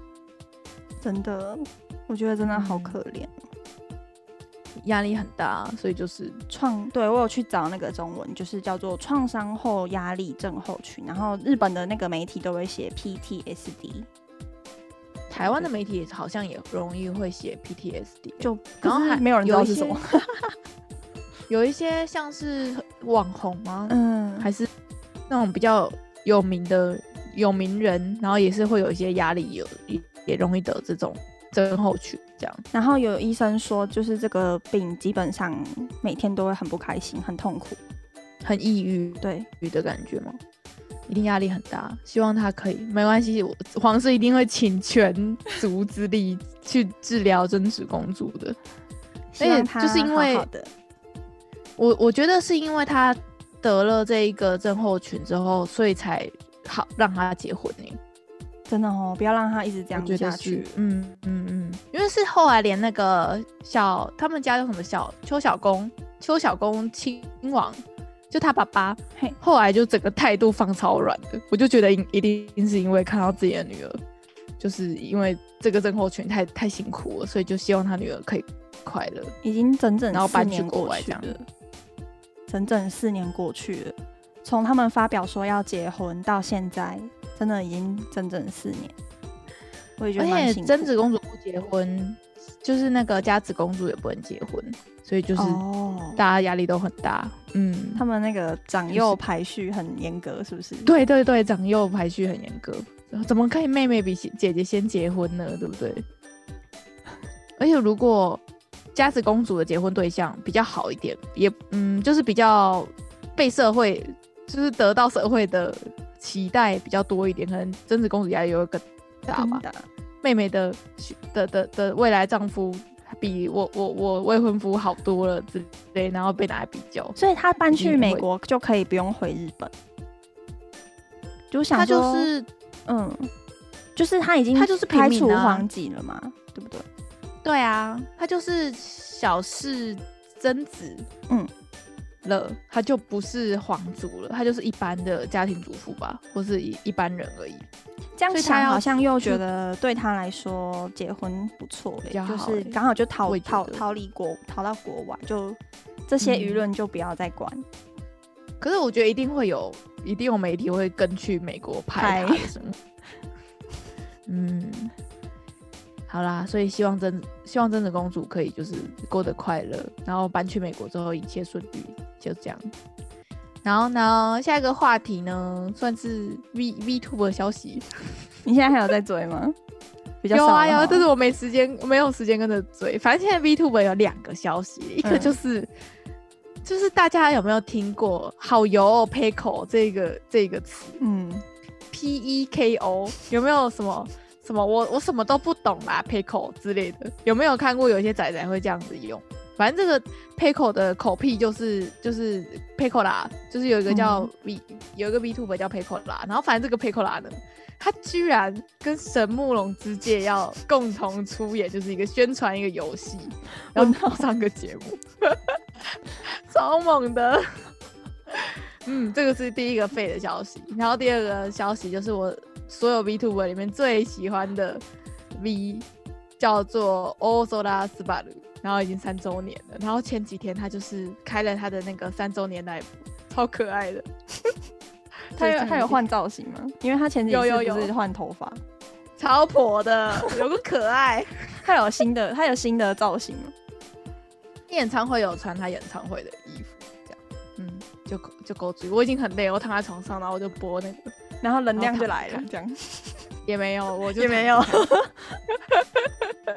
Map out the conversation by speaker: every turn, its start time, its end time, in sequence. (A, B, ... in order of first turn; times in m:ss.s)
0:01.0-0:03.4 A
0:02.4-0:03.0 B
0:04.8-0:06.4 B
0:06.5-0:14.1 A
0:15.3-0:20.0 B
0:15.4-0:15.7 A
0:18.4-0:20.5 A
0:21.5-0:24.7 B
0:23.9-0:24.5 A
0:25.3-0:32.6 B
0:32.7-0:37.8 A
0:38.4-0:40.4 B
0:39.2-0:39.5 A
0:41.1-0:48.6 B
0:49.3-0:50.7 A
0:49.4-0:50.5 B
0:51.8-0:58.0 B
0:58.7-1:00.7 A
0:59.9-1:14.0 B
1:14.6-1:19.3 B
1:19.4-1:21.4 A
1:20.1-1:21.3 B
1:22.5-1:28.9 A
1:30.0-1:30.9 A
1:30.2-1:35.6 B
1:35.4-1:36.2 A
1:36.1-1:38.0 B
1:38.0-1:40.9 A
1:38.9-1:39.2 B
1:40.8-1:46.0 B
1:47.6-1:48.4 B
1:48.9-1:59.6 B
1:59.3-1:59.9 A
2:00.2-2:07.2 B
2:07.2-2:09.7 A
2:07.7-2:08.2 B
2:11.5-2:12.3 A
2:11.7-2:12.5 B
2:12.8-2:13.3 A
2:14.0-2:16.8 A
2:14.5-2:15.7 B
2:17.4-2:21.1 B
2:22.2-2:27.6 B
2:28.2-2:37.6 A
2:28.3-2:29.4 B
2:32.1-2:33.8 B
2:36.2-2:36.6 B
2:38.6-2:42.8 B
2:42.0-2:42.5 A
2:44.3-2:44.9 B
2:46.1-2:52.7 B
2:53.6-2:58.0 B
2:58.4-2:59.6 A
3:00.2-3:01.1 A
3:00.3-3:05.7 B
3:05.0-3:05.3 A
3:06.6-3:11.0 B
3:11.0-3:11.4 A
3:11.9-3:35.6 B
3:23.9-3:24.3 A
3:33.7-3:34.2 A
3:36.2-3:37.7 B
3:38.3-3:44.8 B
3:45.3-3:45.8 B
3:46.4-3:54.1 B
3:55.3-3:56.0 B
3:55.4-3:58.6 A
3:57.3-3:57.9 B
3:59.2-4:01.6 B
4:01.6-4:03.5 A
4:04.7-4:11.2 B
4:11.4-4:13.3 A
4:11.8-4:12.4 B
4:13.4-4:14.9 B
4:14.2-4:15.4 A